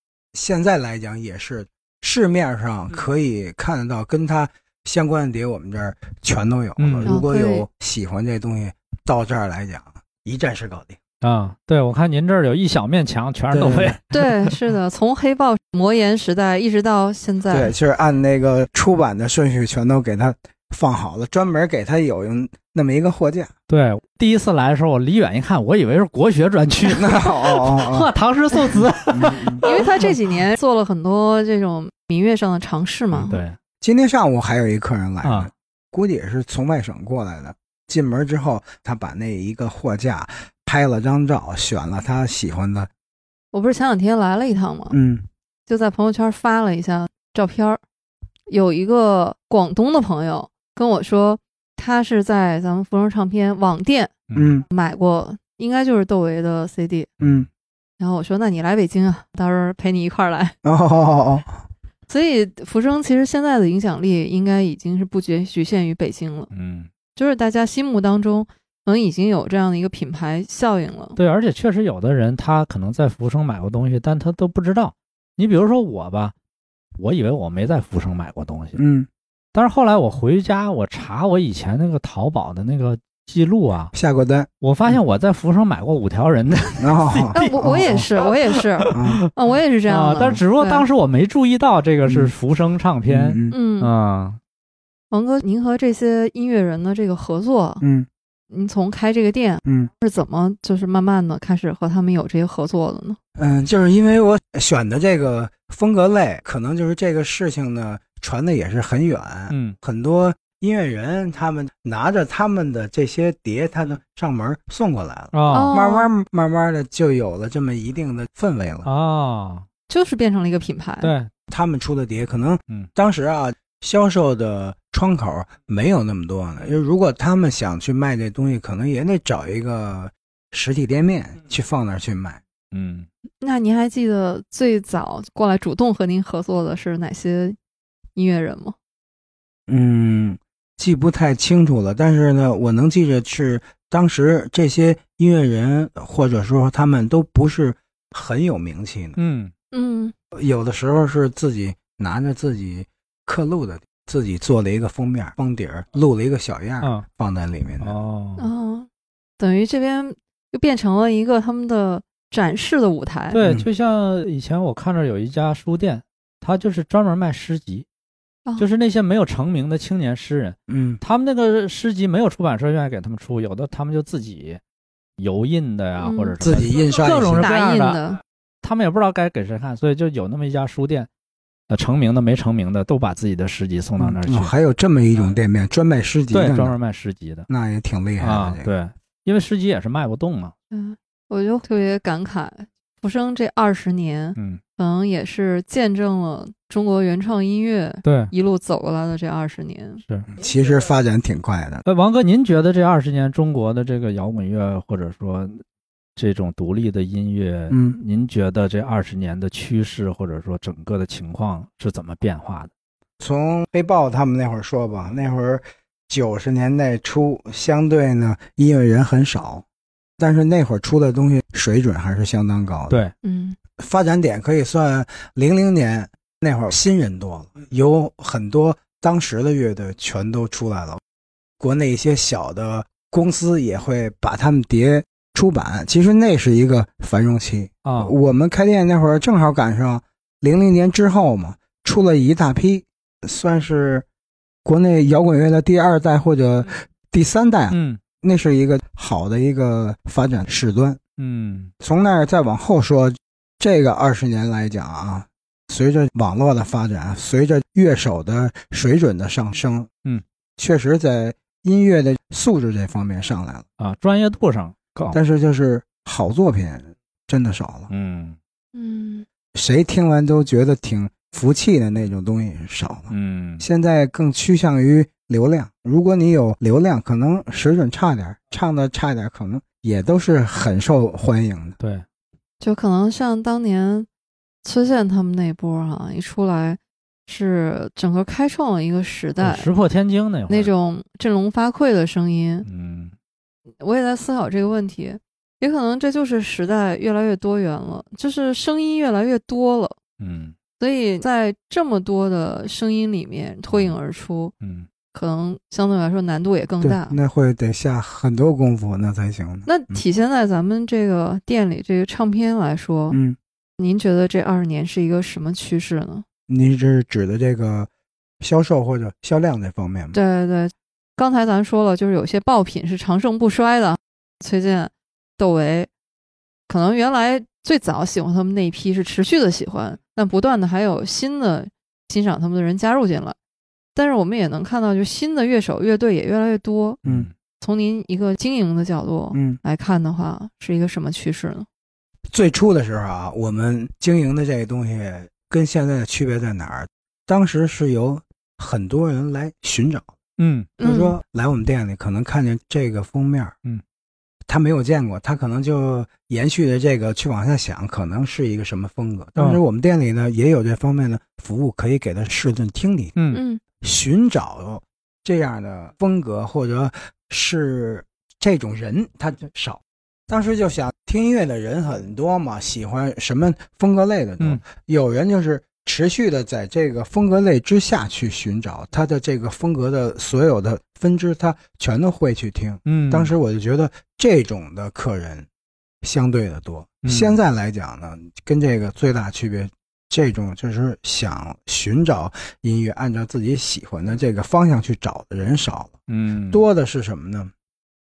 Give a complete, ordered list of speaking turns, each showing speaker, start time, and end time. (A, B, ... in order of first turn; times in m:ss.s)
0:00.3-0:11.0 A
0:06.8-0:07.2 B
0:07.1-0:07.7 C
0:11.2-0:14.3 B
0:13.5-0:14.0 A
0:14.1-0:17.7 C
0:17.5-0:23.5 A
0:23.7-0:30.1 B
0:26.9-0:28.1 A
0:29.1-0:29.6 A
0:29.3-0:33.4 C
0:33.3-0:33.6 B
0:33.8-0:42.9 A
0:35.2-0:35.5 B
0:43.5-0:45.0 C
0:44.9-0:45.2 A
0:45.7-0:47.8 C
0:48.5-0:54.1 C
0:54.3-0:54.7 A
0:54.7-0:57.1 C
0:57.2-0:57.4 B
0:57.2-0:57.5 A
0:58.0-1:00.6 C
1:00.6-1:01.5 A
1:02.1-1:06.5 C
1:06.5-1:06.9 B
1:07.2-1:11.2 C
1:11.2-1:16.3 B
1:17.0-1:18.8 B
1:18.8-1:19.1 A
1:19.5-1:23.9 B
1:23.9-1:25.0 A
1:24.6-1:29.3 B
1:26.8-1:28.1 A
1:27.4-1:30.8 C
1:28.9-1:29.2 A
1:29.9-1:34.4 B
1:32.1-1:32.3 A
1:33.1-1:33.6 A
1:33.5-1:33.9 C
1:35.1-1:37.8 C
1:37.8-1:38.1 A
1:38.5-1:43.2 C
1:39.6-1:39.9 A
1:43.4-1:58.9 A
1:49.5-1:49.8 B
1:55.3-1:55.7 B
1:55.5-1:56.1 C
1:58.8-1:59.7 B
1:59.9-2:01.1 C
2:01.0-2:01.3 B
2:01.5-2:12.4 A
2:12.7-2:13.1 B
2:13.4-2:17.6 C
2:18.2-2:18.8 C
2:19.7-2:29.2 A
2:29.2-2:29.5 B
2:29.7-2:30.1 C
2:30.3-2:38.0 A
2:37.8-2:38.5 B
2:38.4-2:38.9 C
2:39.4-2:43.4 C
2:43.3-2:47.9 B
2:43.4-2:43.7 A
2:48.6-2:54.6 B
2:50.7-2:51.0 A
2:55.2-2:58.0 B
2:56.0-2:56.3 C
2:56.4-2:57.5 A
2:57.4-2:58.2 C
2:58.6-3:01.1 B
3:01.7-3:04.5 B
3:04.0-3:06.8 A
3:06.3-3:07.5 B
3:07.5-3:08.7 A
3:08.2-3:10.5 B
3:10.7-3:20.0 C
3:14.4-3:14.6 B
3:18.0-3:18.3 B
3:20.3-3:21.8 A
3:21.9-3:25.6 B
3:26.2-3:32.7 B
3:27.7-3:28.0 A
3:33.2-3:39.6 A
3:40.2-3:43.0 A
3:43.2-3:43.6 C
3:43.8-3:51.0 A
3:51.6-4:04.1 A
3:57.8-3:58.1 B
4:04.6-4:11.0 A
4:07.7-4:08.0 B
4:11.2-4:11.7 B
4:11.8-4:19.9 A
4:20.6-4:23.6 A
4:23.8-4:25.2 B
4:25.1-4:27.9 A
4:27.9-4:28.4 B
4:28.7-4:29.3 C
4:29.5-4:41.8 A
4:33.1-4:33.6 B
4:42.6-4:44.1 C
4:44.6-4:49.7 C
4:49.4-4:50.7 B
4:50.5-4:52.7 C
4:52.7-4:53.1 B
4:53.8-5:00.0 C
5:00.2-5:00.6 B
5:00.8-5:04.5 C
5:04.6-5:04.9 B
5:05.1-5:07.2 C
5:06.8-5:10.0 A
5:09.7-5:13.2 C
5:13.1-5:13.4 A
5:13.8-5:16.2 C
5:16.5-5:17.9 A
5:18.4-5:20.2 A
5:20.1-5:25.9 C
5:26.7-5:33.4 C
5:34.0-5:37.0 C
5:37.0-5:37.3 B
5:37.6-5:41.7 C
5:39.3-5:39.6 A
5:42.3-5:50.1 A
5:50.4-5:50.7 B
5:50.8-5:51.2 C
5:50.8-5:53.5 A
5:54.5-6:03.2 A
6:03.2-6:03.4 B
6:03.3-6:03.6 C
6:03.8-6:25.5 A
6:22.9-6:23.3 B
6:26.0-6:36.0 A
6:27.0-6:27.4 B
6:36.1-6:36.6 B
6:36.5-6:37.5 A